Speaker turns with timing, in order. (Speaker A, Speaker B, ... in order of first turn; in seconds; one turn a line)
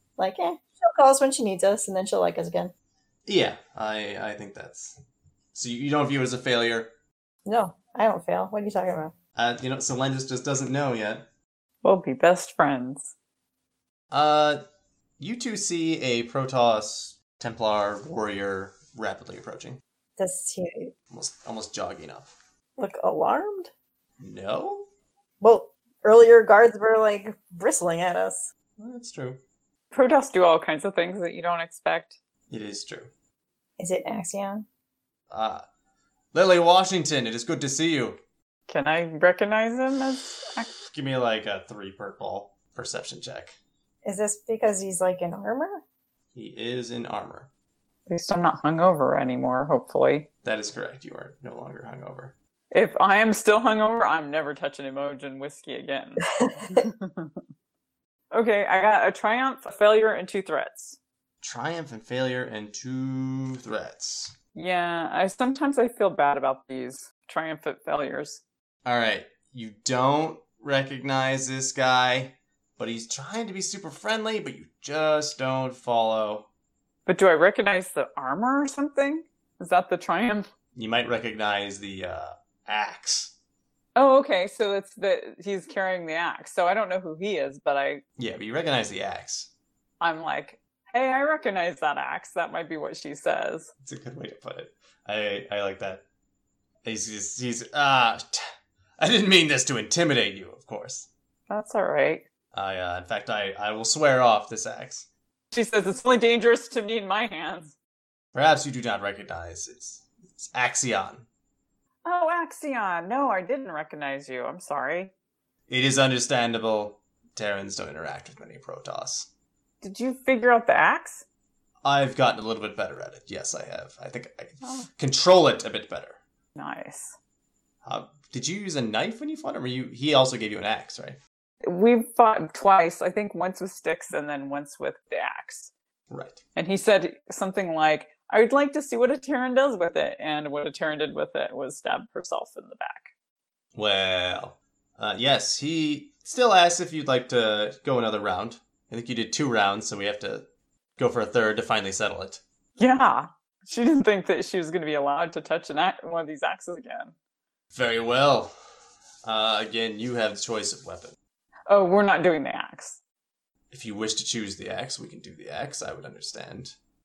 Speaker A: 0.2-2.7
Speaker B: 3.3-5.0
Speaker B: 5.5-6.9
Speaker A: 7.5-9.1
Speaker B: 9.4-11.3
Speaker C: 11.8-13.1
Speaker B: 14.1-14.6
Speaker B: 15.2-19.8
Speaker A: 20.2-20.9
Speaker B: 21.1-22.3
Speaker A: 22.8-23.7
Speaker B: 24.2-24.9
Speaker A: 25.4-28.5
Speaker B: 28.8-29.4
Speaker C: 29.9-32.2
Speaker B: 32.5-33.1
Speaker A: 33.8-34.7
Speaker B: 35.3-35.6
Speaker B: 36.3-38.2
Speaker C: 38.7-40.7
Speaker B: 40.8-43.5
Speaker A: 44.0-45.8
Speaker B: 46.3-47.5
Speaker C: 48.1-50.3
Speaker B: 50.4-52.4
Speaker C: 52.7-57.3
Speaker A: 56.4-56.8
Speaker C: 58.3-61.0
Speaker B: 61.4-64.3
Speaker C: 64.5-68.4
Speaker B: 68.8-76.5
Speaker C: 77.1-80.5
Speaker B: 80.8-83.3
Speaker C: 84.0-88.0
Speaker B: 88.2-89.5
Speaker C: 90.0-93.7
Speaker B: 93.8-96.0
Speaker B: 96.8-98.4
Speaker B: 99.0-101.1
Speaker C: 101.5-102.2
Speaker B: 102.5-105.1
Speaker C: 105.5-107.8
Speaker B: 108.3-111.3
Speaker C: 112.0-115.1
Speaker B: 115.7-119.3
Speaker C: 119.8-121.2
Speaker B: 121.8-126.2
Speaker C: 124.6-124.9
Speaker C: 126.6-127.2
Speaker B: 127.8-131.2
Speaker C: 131.6-135.7
Speaker B: 136.1-136.4
Speaker C: 136.6-143.1
Speaker B: 143.8-150.5
Speaker B: 151.0-152.4
Speaker C: 152.8-157.1
Speaker B: 157.7-158.5
Speaker B: 159.2-161.2
Speaker C: 161.7-163.0
Speaker B: 163.7-166.8